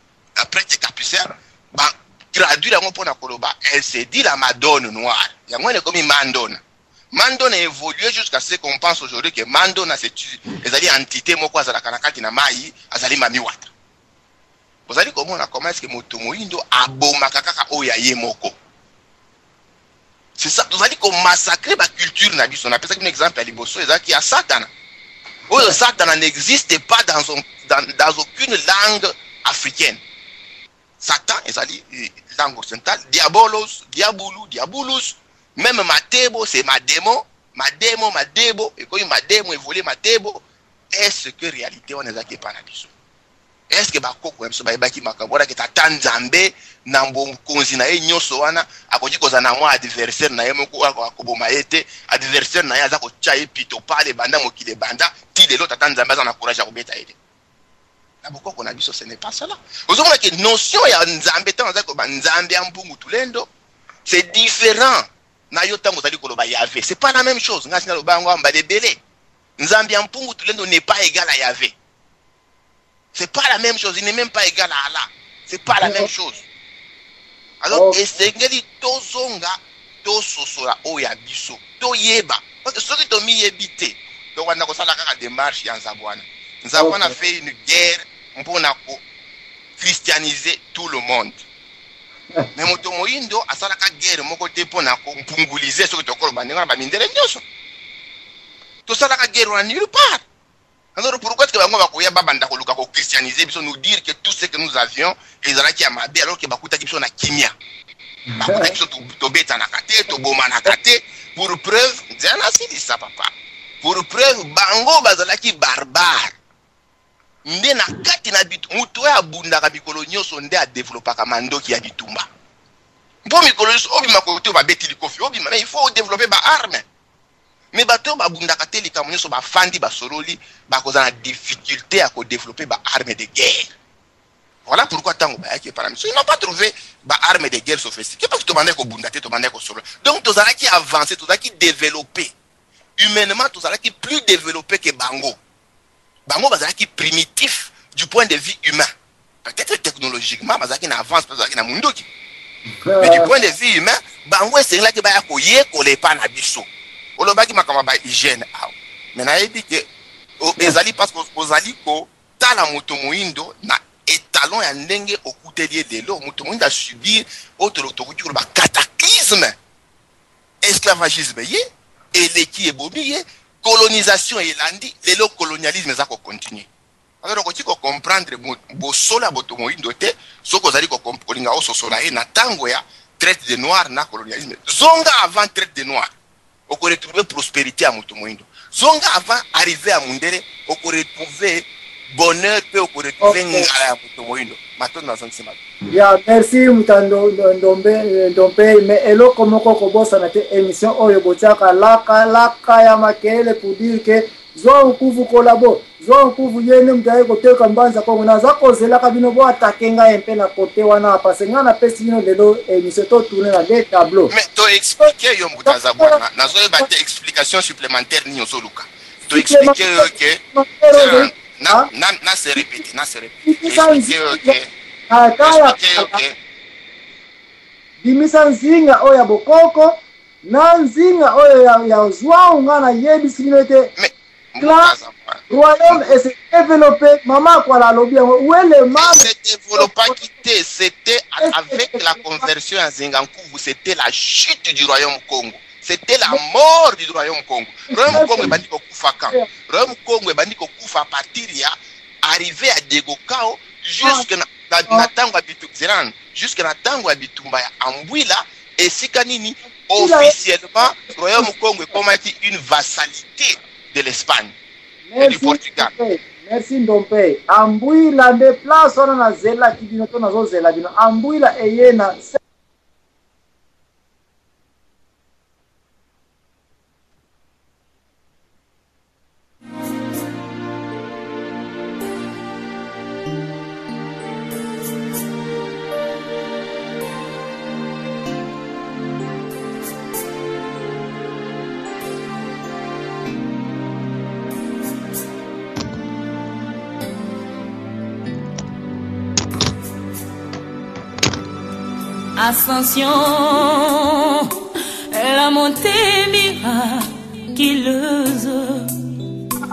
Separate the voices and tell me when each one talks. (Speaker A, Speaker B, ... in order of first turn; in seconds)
Speaker A: 0.4-6.6, 7.1-13.7, 14.9-18.5, 20.4-24.7, 25.5-30.0, 31.0-42.9, 43.7-57.1, 58.2-63.5, 64.0-69.0, 69.6-71.7, 73.1-76.4, 77.6-89.0, 89.8-91.4, 92.5-97.4, 98.9-100.2, 101.0-107.5, 108.4-116.3, 117.4-122.2, 123.2-126.8, 127.7-133.7, 134.7-142.3, 143.0-145.4, 146.3-148.9, 149.4-152.1, 153.0-156.7, 157.2-159.8, 160.4-169.6, 170.6-171.6, 172.1-176.7, 177.2-186.1, 186.7-195.6, 214.3-224.7, 225.4-226.3, 234.0-236.1, 238.9-264.5, 265.2-265.9
Speaker B: 75.8-76.1, 77.7-78.0, 86.8-87.1, 108.3-108.8, 152.8-153.3, 193.2-193.7, 195.9-214.3, 215.7-216.2, 219.3-221.9, 223.4-224.6, 225.1-226.2, 228.0-233.9, 234.6-234.9, 235.5-239.3, 241.4-242.5, 247.9-248.6, 259.9-261.4, 265.1-272.4
Speaker C: 302.4-304.5, 305.1-308.9